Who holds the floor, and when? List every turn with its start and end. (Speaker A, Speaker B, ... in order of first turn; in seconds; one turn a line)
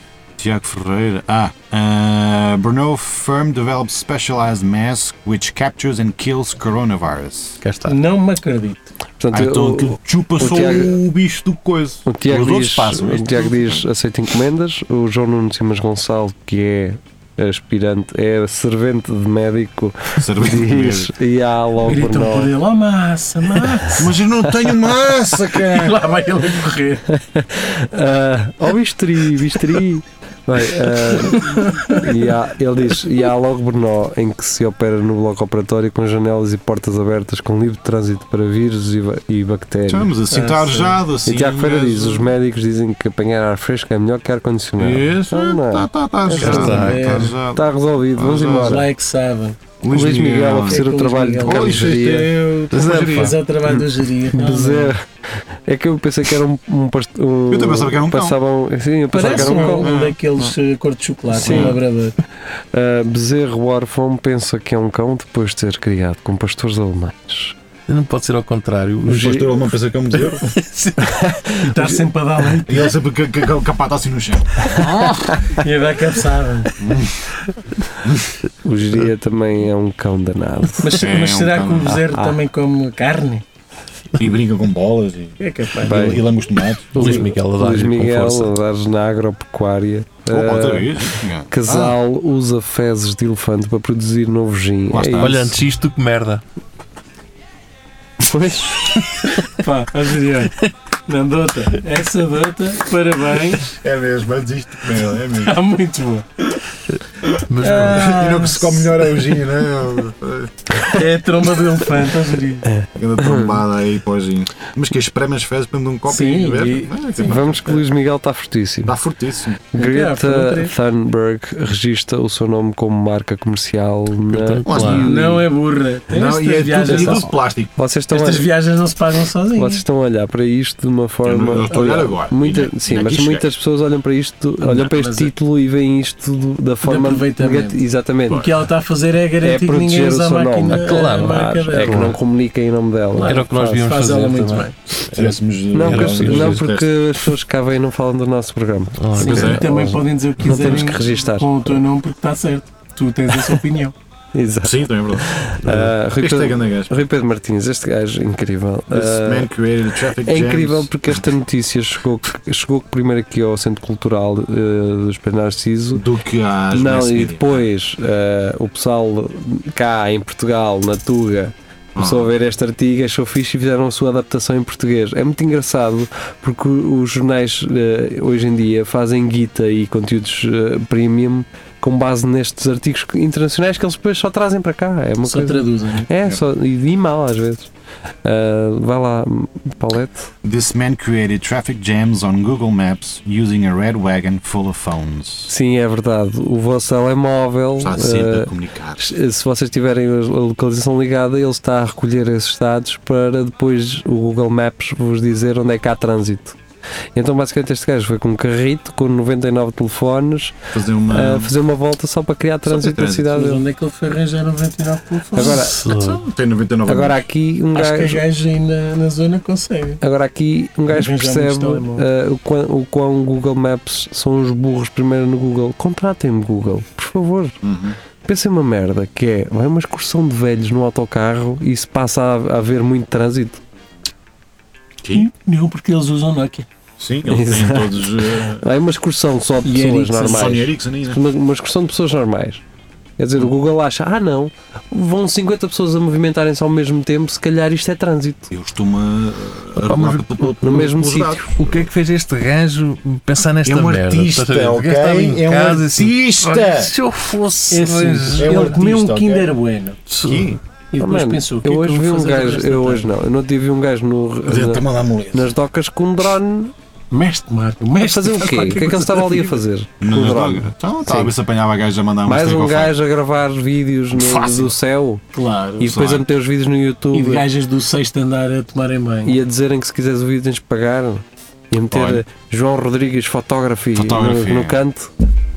Speaker A: 0.4-7.6
Speaker B: 7.8-8.9
Speaker C: 9.2-11.0
Speaker A: 9.3-13.8
Speaker C: 12.1-22.5
Speaker A: 20.1-21.1
Speaker B: 21.8-24.2
Speaker A: 23.9-26.0
Speaker B: 25.5-27.0
Speaker C: 27.1-40.1
Speaker B: 30.9-32.3
Speaker A: 39.9-42.3
Speaker B: 40.3-41.0
Speaker C: 41.2-48.8
Speaker A: 44.8-48.8
Speaker B: 46.4-47.3
Speaker D: 46.4-47.2
Speaker B: 48.5-49.6
Speaker A: 49.8-50.9
Speaker C: 49.9-52.3
Speaker B: 50.6-51.9
Speaker A: 51.4-53.4
Speaker D: 52.7-53.3
Speaker B: 52.8-54.9
Speaker C: 54.3-55.0
Speaker C: 55.6-59.9
Speaker A: 57.5-58.4
Speaker B: 59.1-62.1
Speaker A: 59.2-60.5
Speaker A: 61.3-61.8
Speaker C: 61.4-61.8
Speaker C: 62.7-67.5
Speaker D: 67.9-69.4
Speaker A: 69.0-70.5
Speaker C: 69.1-69.5
Speaker D: 70.4-71.1
Speaker C: 71.0-72.0
Speaker B: 71.6-72.9
Speaker A: 72.6-75.4
Speaker C: 74.7-75.3
Speaker B: 75.5-76.7
Speaker A: 76.8-77.3
Speaker A: 78.0-78.3
Speaker C: 78.6-80.9
Speaker B: 80.8-83.4
Speaker A: 80.9-82.0
Speaker C: 82.1-82.4
Speaker A: 84.2-87.2
Speaker B: 85.4-86.2
Speaker C: 85.8-86.2
Speaker D: 86.9-88.5
Speaker C: 86.9-95.4
Speaker A: 90.3-92.0
Speaker A: 94.9-95.6
Speaker D: 95.2-96.4
Speaker C: 98.2-98.9
Speaker B: 99.5-103.7
Speaker A: 103.7-105.6
Speaker B: 105.3-106.5
Speaker A: 107.2-110.8
Speaker D: 107.5-108.2
Speaker B: 107.6-109.1
Speaker B: 110.8-112.7
Speaker C: 112.7-113.5
Speaker A: 112.9-117.8
Speaker B: 116.1-117.4
Speaker C: 117.2-118.9
Speaker A: 118.8-119.7
Speaker C: 119.7-125.0
Speaker B: 119.7-120.7
Speaker D: 124.3-125.4
Speaker A: 124.7-125.4
Speaker B: 124.9-127.3
Speaker A: 126.1-127.7
Speaker C: 126.8-127.2
Speaker C: 127.8-128.5
Speaker B: 128.1-129.8
Speaker C: 129.6-138.5
Speaker A: 131.2-133.5
Speaker B: 134.6-135.3
Speaker B: 136.8-142.2
Speaker C: 139.4-143.8
Speaker D: 140.7-142.2
Speaker B: 143.1-144.8
Speaker D: 143.2-144.7
Speaker A: 145.1-147.3
Speaker C: 145.7-151.8
Speaker D: 145.8-146.6
Speaker D: 149.0-149.9
Speaker B: 149.2-153.9
Speaker A: 149.2-149.7
Speaker A: 150.6-150.9
Speaker C: 154.3-159.5
Speaker A: 154.6-156.9
Speaker A: 158.9-161.2
Speaker C: 160.1-166.0
Speaker A: 165.9-167.7
Speaker C: 166.7-187.7
Speaker A: 171.9-172.3
Speaker B: 185.2-186.1
Speaker C: 188.2-190.3
Speaker A: 190.4-195.5
Speaker C: 195.5-206.6
Speaker A: 197.8-199.1
Speaker C: 207.1-213.6
Speaker A: 210.7-211.5
Speaker A: 212.6-213.4
Speaker B: 213.3-215.6
Speaker C: 215.3-215.8
Speaker D: 215.4-216.2
Speaker A: 215.8-217.2
Speaker C: 216.9-218.2
Speaker B: 217.7-220.0
Speaker C: 220.0-227.6
Speaker B: 220.9-222.0
Speaker A: 227.6-228.0
Speaker C: 228.2-233.6
Speaker A: 235.0-235.3
Speaker B: 235.1-236.7
Speaker A: 237.0-238.7
Speaker C: 237.2-242.6
Speaker B: 239.6-240.5
Speaker A: 240.2-241.2
Speaker C: 243.2-248.5
Speaker A: 248.5-251.9
Speaker D: 249.8-250.6
Speaker C: 250.6-251.5
Speaker D: 251.6-258.8
Speaker A: 253.6-256.9
Speaker B: 257.7-260.0
Speaker A: 258.4-259.5
Speaker D: 260.1-260.5
Speaker A: 260.2-260.6
Speaker B: 260.9-263.1
Speaker C: 261.0-266.7
Speaker A: 264.5-265.5
Speaker B: 267.1-269.6
Speaker C: 268.0-271.3
Speaker A: 270.0-273.0
Speaker C: 272.2-275.2
Speaker A: 274.1-274.8
Speaker B: 275.3-275.9
Speaker C: 275.8-277.4
Speaker A: 275.8-276.3
Speaker B: 277.1-279.4
Speaker C: 279.2-285.1
Speaker A: 281.9-282.2
Speaker A: 283.9-284.8